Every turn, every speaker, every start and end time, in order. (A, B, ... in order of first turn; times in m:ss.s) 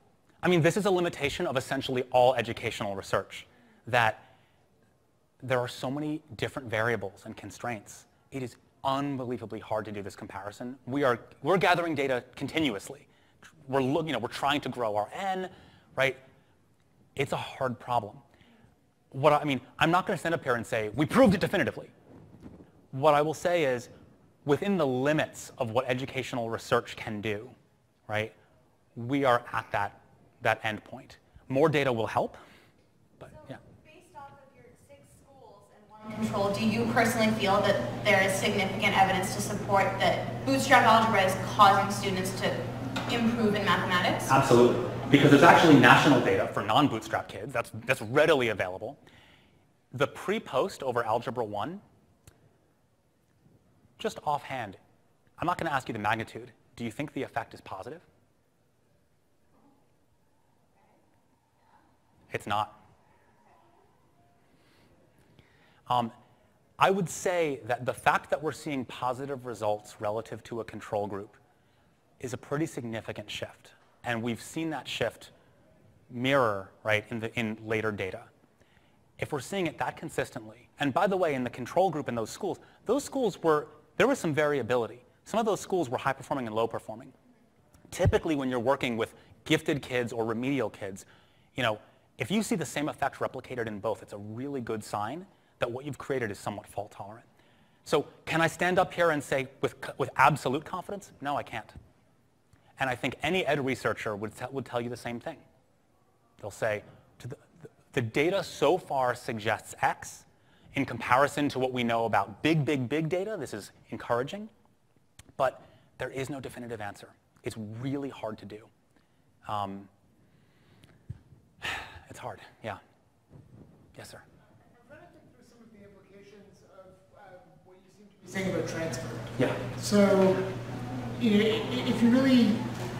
0:00.4-0:04.2 A
0:05.4-0:13.1 A
0:13.7-0:16.2 A
0:17.2-0:18.2 A
0:19.1-0:21.9 A
0:22.9-0:23.9 A
0:24.4-0:27.6 A
0:28.1-0:28.4 A
0:29.0-0:32.4 A
0:33.2-0:33.6 A
0:33.8-0:42.6 B
0:43.1-0:44.3 B
0:44.3-0:49.0 A
0:49.9-0:51.8 A
0:54.0-0:54.8 A
0:55.4-0:58.0 A
1:02.3-1:02.8 A
1:06.8-1:11.4 A
1:12.2-1:15.3 A
1:16.1-1:18.3 A
1:19.2-1:27.1 A
1:27.9-1:31.0 A
1:31.6-1:37.3 A
1:37.9-1:41.7 A
1:42.8-1:45.4 A
1:46.4-1:54.5 A
1:55.4-1:58.7 A
1:59.5-1:59.9 A
2:01.6-2:02.8 A
2:04.0-2:04.2 A
2:04.7-2:10.5 C
2:09.4-2:09.6 A
2:11.2-2:12.6 C